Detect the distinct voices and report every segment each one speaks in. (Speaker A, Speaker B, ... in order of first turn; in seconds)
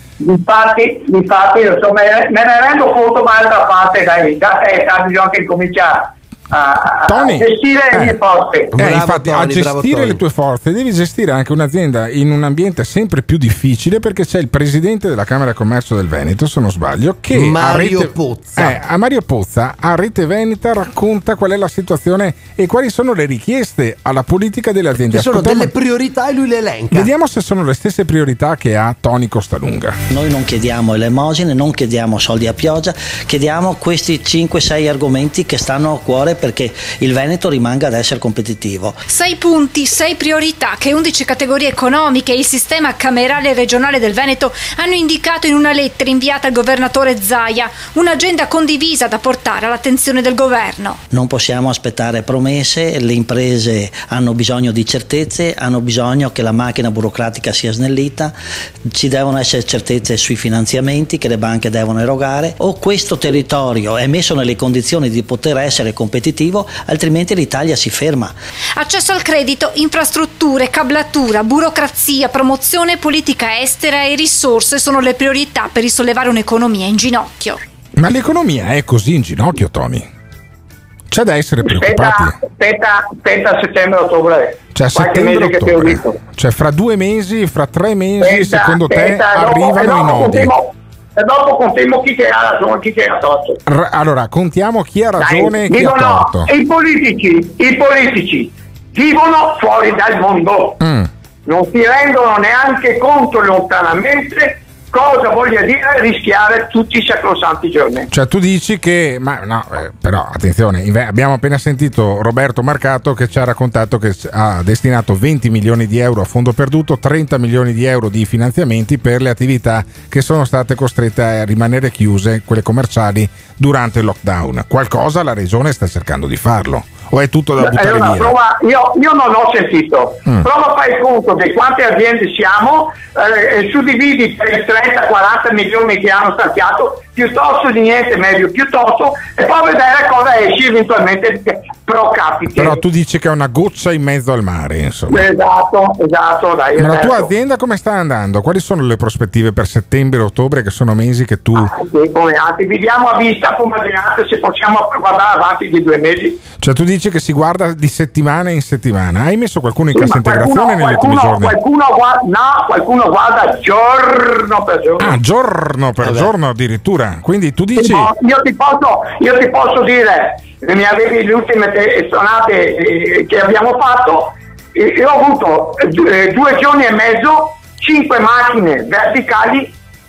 Speaker A: 0.2-8.7, 81.6-86.2, 88.2-93.6, 95.2-100.8, 101.5-108.1, 127.6-142.8, 145.1-147.3, 151.5-156.4, 159.9-165.1, 167.8-179.7
Speaker B: 7.0-8.2, 8.7-25.7, 26.9-30.0, 78.0-80.1, 81.1-82.3, 84.7-90.5, 93.7-96.5, 100.8-101.1, 108.1-128.3, 142.5-145.3, 146.8-151.7, 156.6-161.6, 165.0-168.1
Speaker C: 8.7-10.2, 17.3-18.8, 25.1-27.1, 166.0-166.3
Speaker D: 30.1-39.0, 51.1-58.3, 58.9-68.3
Speaker E: 39.1-51.0, 68.8-77.6